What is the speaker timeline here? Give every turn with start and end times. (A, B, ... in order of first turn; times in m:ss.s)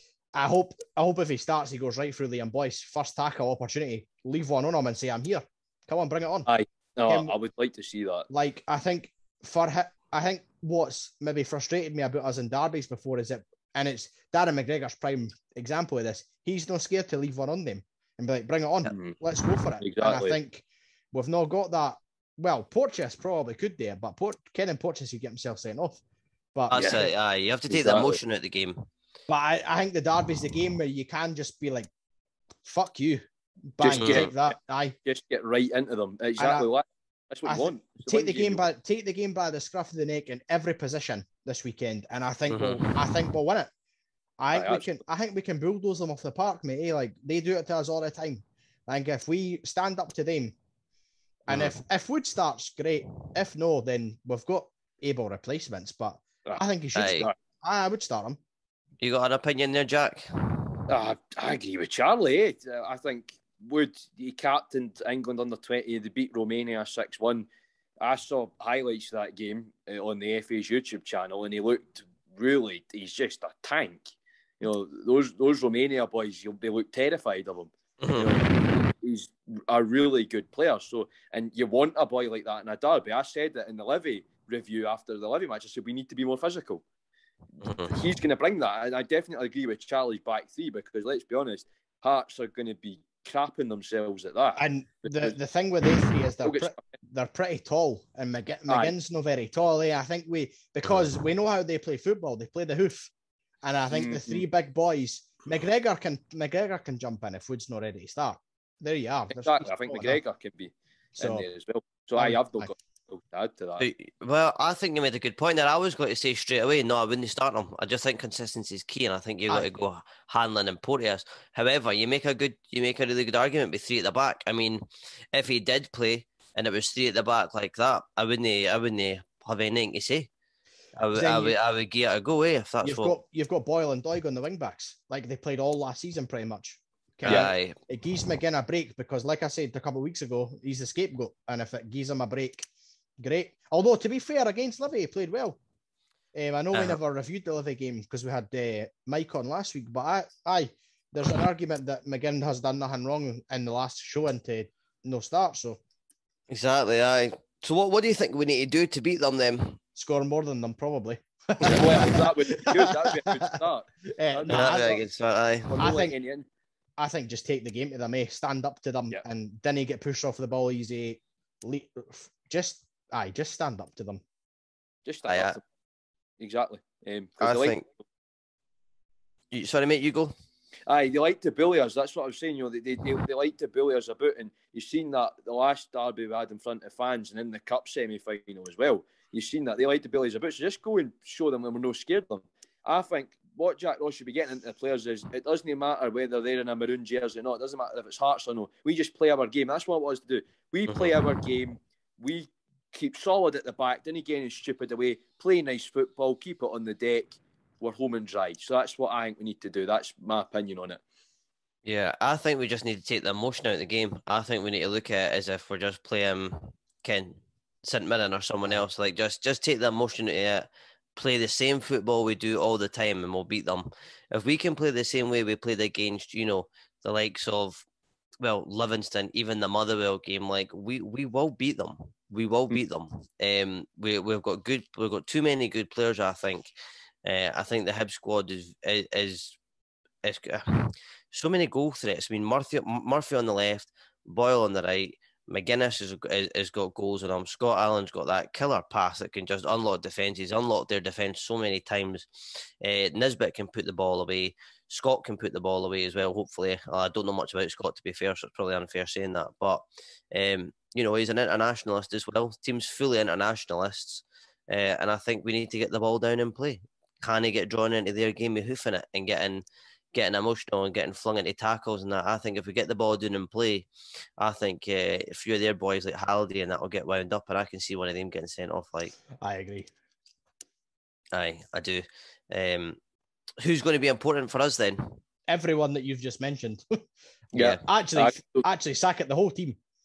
0:00.3-0:06.5 A
0:06.5-0:08.3 B
0:07.0-0:07.3 A
0:08.3-0:26.0 A
0:18.9-0:19.2 B
0:19.8-0:20.4 B
0:26.5-0:27.0 A
0:26.7-0:27.0 B
0:26.7-0:28.8 C
0:27.7-0:28.2 B
0:29.3-0:31.9 A
0:32.6-0:33.2 A
0:33.7-0:35.0 A
0:33.8-0:34.5 B
0:34.0-0:34.3 C
0:35.0-0:38.6 B
0:36.4-0:36.7 A
0:37.4-0:43.7 A
0:42.5-0:43.0 C
0:44.4-0:50.6 A
0:44.5-0:45.0 B
0:51.5-0:58.4 A
0:51.5-0:51.8 C
0:56.9-0:57.3 C
0:59.0-1:00.3 C
1:00.9-1:07.5 B
1:08.0-1:26.8 B
1:18.0-1:18.8 C
1:27.6-1:27.9 C
1:27.6-1:35.3 B
1:34.6-1:43.1 A
1:36.4-1:36.8 B
1:38.7-1:38.9 B
1:43.6-1:50.2 A
1:43.9-1:44.4 B
1:49.3-1:53.8 B
1:51.2-1:51.4 A
1:52.2-1:52.7 A
1:53.8-2:10.3 C
2:11.0-2:13.1 C
2:11.1-2:11.6 A
2:12.8-2:22.7 A
2:17.2-2:17.7 C
2:17.3-2:17.5 B
2:23.2-2:25.6 A
2:26.3-2:35.8 A
2:26.7-2:27.0 C
2:36.5-2:39.8 C
2:40.0-2:43.4 A
2:41.6-2:45.0 B
2:44.1-2:45.0 A
2:44.5-2:45.7 C
2:45.7-2:46.4 B
2:45.8-2:46.2 A
2:47.0-2:54.2 A
2:55.0-2:55.6 B
2:55.3-2:55.6 C
2:56.4-2:57.9 B
2:57.4-2:57.8 C
2:59.5-3:00.3 C
3:00.9-3:31.0 B
3:20.9-3:21.4 C
3:31.8-3:47.8 C
3:48.4-3:56.7 C
3:57.2-3:59.6 C
4:00.2-4:12.3 C
4:12.8-4:39.1 C
4:39.4-4:39.9 A
4:41.3-4:43.0 C
4:43.6-4:45.2 C
4:45.5-4:46.8 A
4:47.5-4:48.6 B
4:47.6-4:49.8 A